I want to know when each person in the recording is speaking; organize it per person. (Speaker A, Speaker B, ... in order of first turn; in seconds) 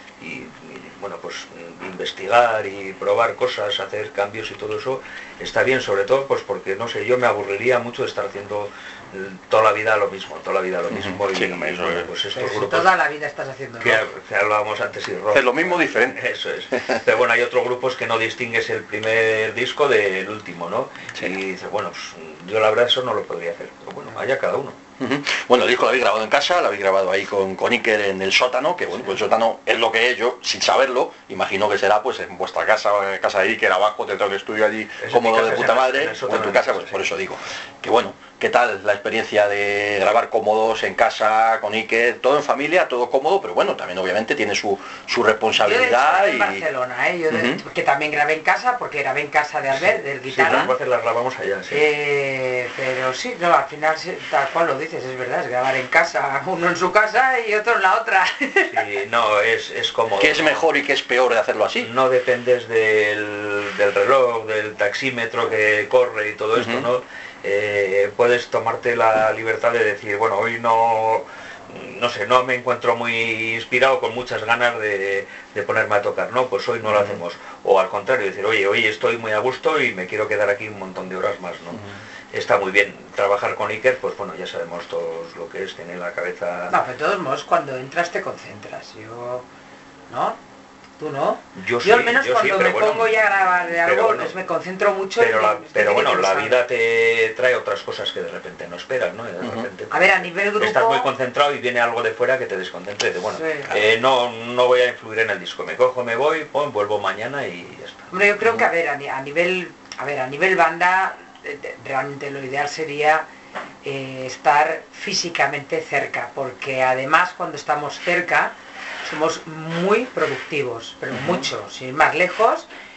Speaker A: 0.2-12.9, 13.8-24.8, 35.0-37.1, 49.7-51.9, 58.7-60.6, 61.8-86.8, 91.6-94.3, 95.2-108.1
Speaker B: 10.9-12.1, 15.3-16.2, 16.8-17.0, 25.0-46.6, 47.3-47.6, 60.2-61.9, 66.6-66.9, 76.9-77.2, 99.4-99.7, 121.1-121.4
Speaker C: 12.3-14.0, 45.6-50.7, 51.7-58.8, 86.7-89.5, 90.1-90.4, 91.0-96.6, 99.9-101.1, 103.3-103.7, 108.1-113.3, 113.8-122.7